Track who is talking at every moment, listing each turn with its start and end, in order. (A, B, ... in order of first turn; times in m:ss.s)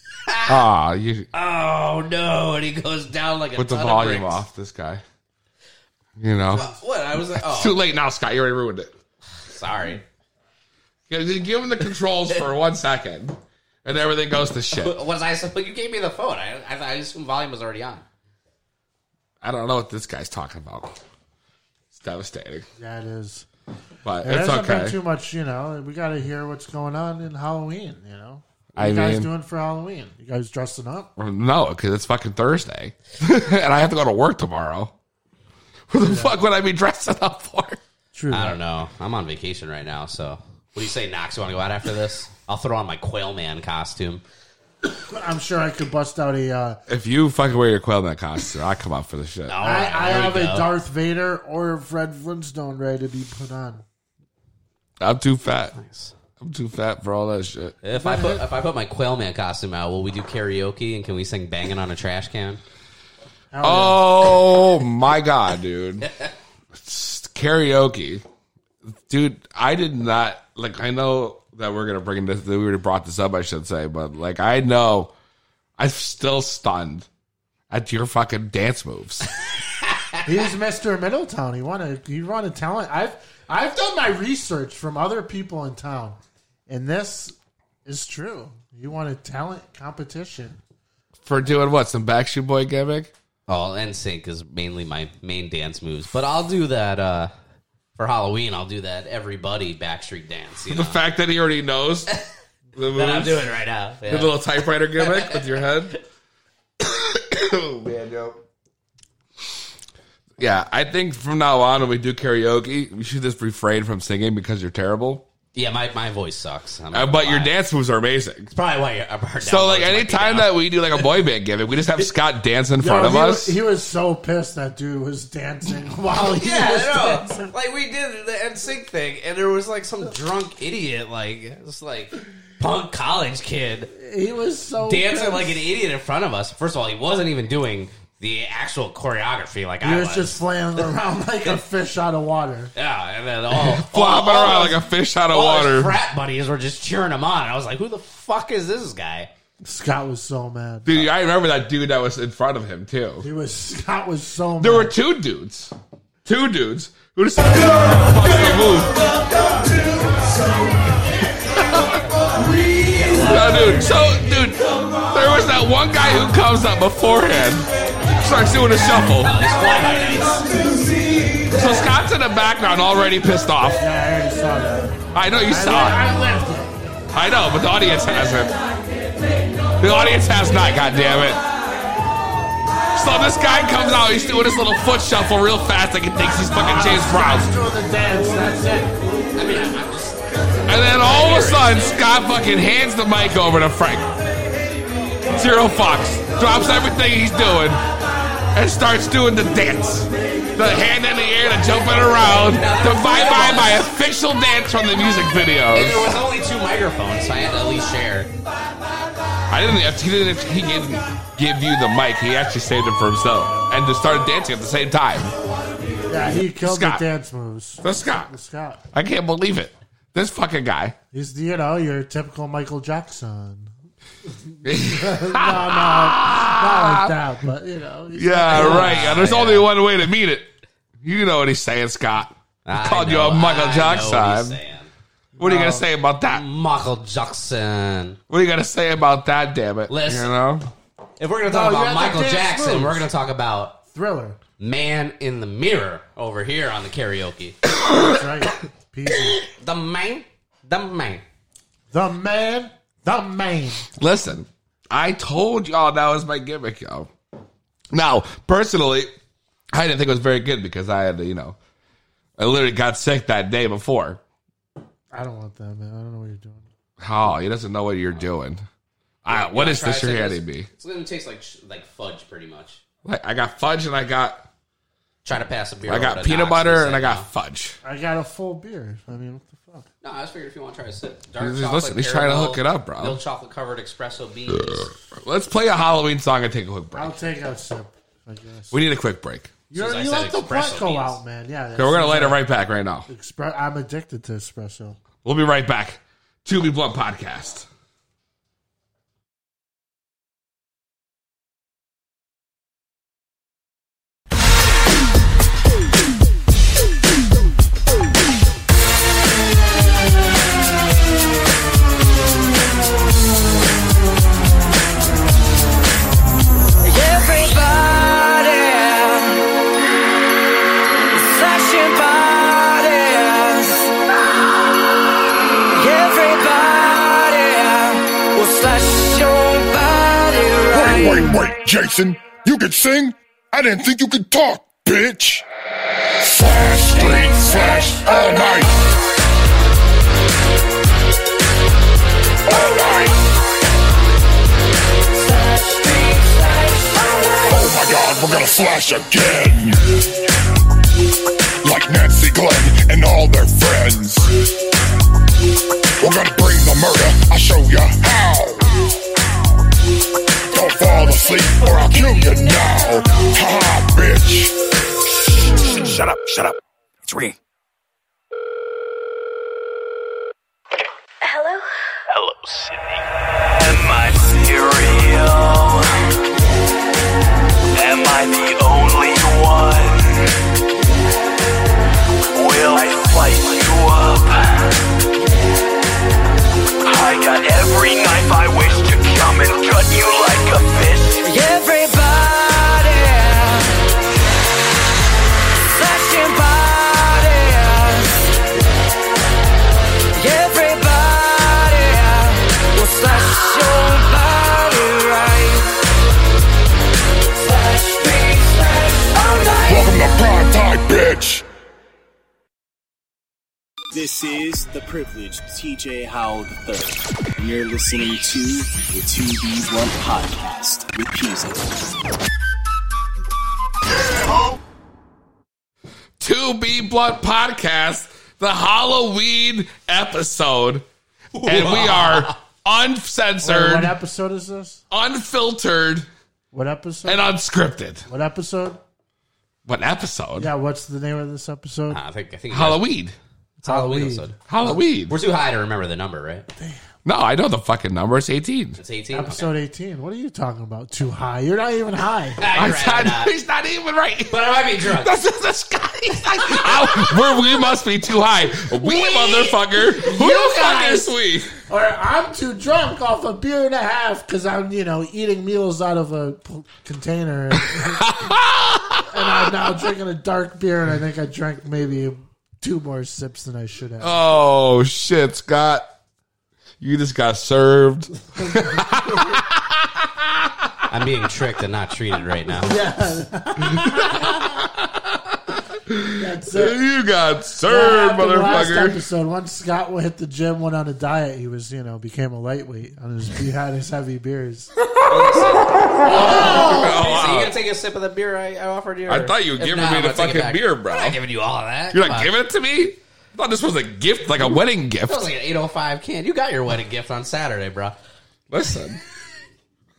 0:00.3-0:00.6 A
0:00.5-0:01.3 B
0:01.3-0:04.4 A
0:03.6-0:05.0 B
0:06.2-0:06.7 B
0:06.5-0:07.8 A
0:07.4-0:08.9 B
0:09.4-0:10.0 A
0:11.1-0:15.0 B
0:14.7-0:18.0 A
0:19.4-0:21.0 B
0:21.9-0:22.7 B
0:22.8-0:23.5 C
0:24.0-0:25.0 B
0:24.2-0:31.1 C
0:28.8-0:29.3 B
0:31.2-0:34.9 B
0:35.9-0:37.8 B
0:36.0-0:36.4 C
0:38.1-0:38.6 C
0:38.3-0:44.2 A
0:44.8-0:46.8 C
0:46.9-0:49.6 B
0:49.5-0:50.7 A
0:49.6-0:53.8 C
0:55.0-0:55.8 B
0:55.8-0:56.1 A
0:56.4-0:57.8 B
0:57.8-1:02.6 A
0:57.9-0:58.4 C
1:03.5-1:04.1 C
1:03.6-1:06.1 B
1:06.7-1:08.2 B
1:08.8-1:15.1 B
1:15.8-1:17.1 B
1:17.7-1:19.3 B
1:20.2-1:30.6 C
1:31.2-1:33.1 B
1:33.5-1:37.3 A
1:38.0-1:41.0 A
1:40.7-1:42.1 B
1:42.8-1:43.4 B
1:42.9-1:44.3 A
1:44.1-1:46.0 B
1:45.0-1:45.6 A
1:46.8-1:48.4 B
1:50.4-1:55.3 B
1:55.5-1:57.5 A
1:56.9-1:58.5 B
1:58.5-2:01.0 A
1:59.4-2:03.6 B
2:02.8-2:07.5 C
2:06.4-2:13.9 A
2:14.0-2:15.6 C
2:14.8-2:20.4 A
2:19.8-2:22.7 C
2:22.8-2:24.8 A
2:23.5-2:26.0 B
2:25.3-2:29.3 A
2:29.6-2:31.1 C
2:30.8-2:33.3 B
2:33.2-2:34.9 C
2:34.6-2:35.7 B
2:36.2-2:39.0 B
2:41.5-2:42.0 B
2:42.8-2:43.9 A
2:43.1-2:44.6 B
2:45.1-2:49.3 B
2:49.2-2:50.5 A
2:51.5-2:53.8 B
2:53.8-2:56.8 C
2:55.1-2:56.1 B
2:57.1-2:58.5 B
2:59.8-3:01.4 B
3:03.0-3:07.5 B
3:06.5-3:09.0 C
3:09.4-3:12.0 A
3:10.7-3:14.1 B
3:15.3-3:17.8 B
3:18.5-3:26.1 B
3:22.2-3:23.8 A
3:25.7-3:28.3 A
3:29.5-3:35.4 B
3:36.1-3:38.8 C
3:36.6-3:37.0 B
3:37.8-3:38.3 B
3:38.9-3:41.0 B
3:41.1-3:43.7 C
3:44.3-3:49.1 C
3:44.6-3:47.1 B
3:48.1-3:50.5 B
3:48.5-3:49.7 A
3:51.0-3:54.6 B
3:52.6-3:54.9 A
3:55.4-3:55.9 C
3:55.4-3:56.4 B
3:56.3-3:58.2 A
3:58.3-4:00.7 B
3:59.9-4:00.3 A
4:01.2-4:03.8 A
4:01.5-4:03.1 C
4:03.9-4:04.4 C
4:04.6-4:07.6 A
4:08.0-4:09.4 C
4:09.6-4:11.2 A
4:11.9-4:13.8 C
4:14.0-4:17.1 B
4:17.9-4:19.1 B
4:19.7-4:21.6 B
4:22.4-4:24.2 B
4:25.1-4:26.7 C
4:27.0-4:28.6 B
4:29.2-4:30.7 B
4:29.3-4:32.8 A
4:33.0-4:34.4 B
4:35.2-4:37.3 A
4:35.8-4:37.8 B
4:37.8-4:39.9 C
4:40.0-4:44.9 A
4:41.4-4:43.2 B
4:44.7-4:47.2 B
4:47.0-4:48.8 C
4:48.7-4:49.5 B
4:49.7-4:52.4 C
4:49.7-4:51.2 A
4:51.8-4:53.1 B
4:53.1-4:55.0 C
4:55.2-4:57.7 B
5:16.8-5:19.5 D
5:21.1-5:23.9 D
5:25.7-5:31.5 D
5:30.7-5:35.4 E
5:36.2-5:38.8 E
5:37.0-5:38.2 D
5:42.5-5:43.2 E
5:45.2-5:47.5 D
5:47.4-5:49.8 E
5:51.6-5:54.3 E
5:56.0-5:58.7 E
6:00.5-6:04.5 E
6:01.3-6:03.0 D
6:05.9-6:06.5 F
6:11.2-6:11.6 D
6:12.1-6:16.0 F
6:17.7-6:20.3 F
6:22.3-6:24.7 F
6:26.8-6:31.2 F
6:31.2-6:33.8 D
6:35.7-6:38.3 D
6:40.2-6:45.8 D
6:47.4-6:49.9 D
6:49.6-6:51.4 E
6:53.9-7:01.6 G
7:06.2-7:10.8 B
7:11.4-7:12.4 A
7:11.4-7:13.9 B
7:13.4-7:14.8 C
7:14.9-7:16.1 B
7:16.5-7:17.3 C
7:17.0-7:18.1 B
7:18.1-7:18.8 C
7:19.6-7:20.5 B
7:20.4-7:22.0 C
7:21.9-7:22.8 A
7:22.5-7:23.2 B
7:23.6-7:26.5 A
7:23.6-7:24.3 C
7:24.5-7:25.2 B
7:26.6-7:26.9 C
7:27.0-7:28.8 B
7:28.8-7:29.5 A
7:29.1-7:32.4 C
7:32.4-7:33.3 A
7:32.5-7:41.5 B
7:34.3-7:35.1 A
7:38.9-7:39.2 C
7:39.9-7:41.1 C
7:41.7-7:48.1 C
7:47.8-7:49.4 B
7:49.1-7:54.2 C
7:54.0-7:55.9 B
7:56.8-8:00.7 B
7:58.4-7:59.3 C
8:00.9-8:02.7 A
8:02.6-8:04.5 C
8:03.6-8:09.0 B
8:06.2-8:06.8 C
8:07.7-8:14.7 C
8:15.1-8:22.3 A
8:15.1-8:17.6 B
8:16.1-8:16.9 C
8:19.1-8:21.2 B
8:21.9-8:25.2 B
8:25.1-8:28.0 A
8:28.5-8:29.0 B